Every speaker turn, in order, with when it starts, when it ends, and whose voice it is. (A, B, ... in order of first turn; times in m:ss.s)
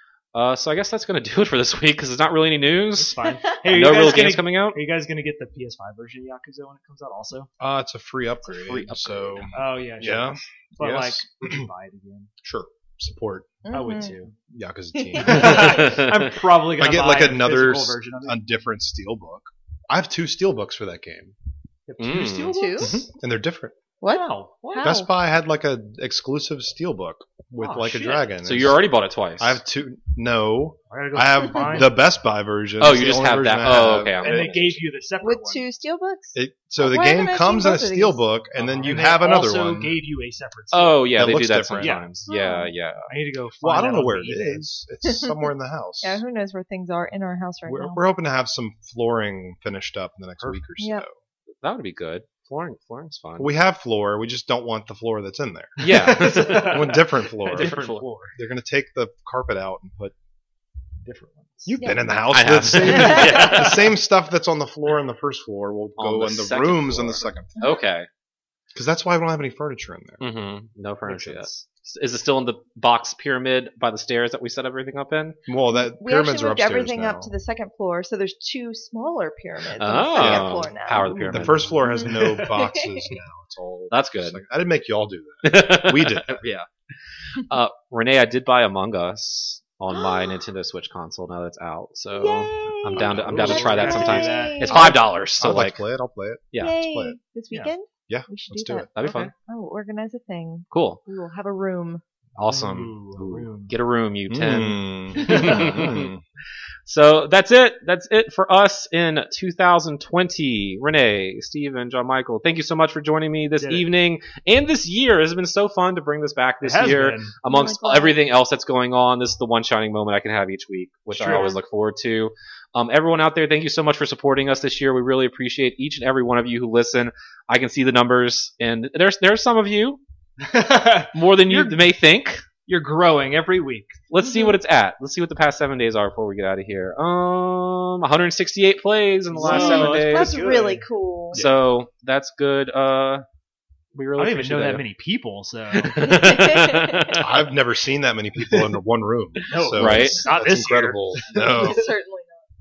0:00.3-0:04.8 A
0:03.0-0:07.5 B
0:07.6-0:11.7 C
0:08.5-0:09.5 A
0:09.5-0:12.3 B
0:12.4-0:13.6 C
0:13.6-0:14.2 D
0:13.7-0:14.4 B
0:14.5-0:16.0 C
0:15.0-0:15.3 D
0:15.2-0:18.4 B
0:15.3-0:16.3 A
0:16.8-0:21.3 C
0:21.9-0:23.1 B
0:22.0-0:22.6 A
0:22.5-0:23.0 D
0:22.8-0:23.8 C
0:24.0-0:25.1 D
0:24.1-0:25.0 B
0:24.8-0:28.9 C
0:27.6-0:28.4 B
0:28.4-0:29.6 A
0:29.4-0:34.5 C
0:30.9-0:32.0 B
0:32.8-0:34.8 A
0:34.2-0:35.7 B
0:35.2-0:38.2 D
0:36.4-0:40.0 C
0:38.6-0:41.2 B
0:40.7-0:43.1 A
0:41.2-0:42.0 C
0:41.8-0:42.1 B
0:42.3-0:42.7 D
0:43.1-0:44.6 B
0:43.6-0:46.2 C
0:45.0-0:45.3 D
0:46.0-0:48.0 D
0:47.7-0:51.1 C
0:50.8-0:51.0 D
0:51.6-0:53.5 A
0:53.4-0:57.8 C
0:55.8-0:58.1 A
0:55.8-0:58.4 B
0:58.4-1:00.1 C
1:01.0-1:01.8 B
1:01.7-1:07.6 C
1:01.7-1:02.2 D
1:02.3-1:03.9 A
1:02.8-1:03.9 B
1:06.0-1:08.1 A
1:08.7-1:10.2 C
1:10.2-1:15.4 A
1:11.1-1:11.6 B
1:15.5-1:17.3 C
1:15.7-1:23.1 D
1:19.8-1:21.7 A
1:20.2-1:20.5 C
1:21.0-1:22.6 B
1:21.3-1:26.4 C
1:23.9-1:24.4 A
1:25.4-1:26.7 A
1:27.4-1:35.9 A
1:29.9-1:30.5 D
1:32.2-1:35.0 D
1:33.0-1:34.0 C
1:33.1-1:35.1 B
1:34.8-1:37.2 C
1:36.6-1:42.0 D
1:38.1-1:38.9 C
1:39.0-1:39.3 A
1:39.0-1:39.3 B
1:40.7-1:41.0 A
1:42.4-1:46.1 A
1:42.4-1:43.7 B
1:44.3-1:46.2 C
1:45.2-1:45.7 B
1:46.8-2:10.0 A
1:53.6-1:53.8 B
1:56.6-1:57.3 B
1:57.5-1:58.2 D
2:01.1-2:01.5 B
2:01.2-2:01.6 D
2:10.4-2:11.9 B
2:11.1-2:12.4 A
2:12.7-2:14.0 B
2:14.1-2:20.4 A
2:14.2-2:14.6 D
2:19.3-2:20.8 B
2:19.4-2:21.4 D
2:21.3-2:21.6 C
2:21.3-2:23.2 A
2:24.0-2:24.8 A
2:24.2-2:26.3 B
2:25.7-2:27.5 A
2:26.0-2:27.2 D
2:27.2-2:31.9 C
2:29.5-2:31.8 B
2:29.7-2:30.3 A
2:31.3-2:32.4 D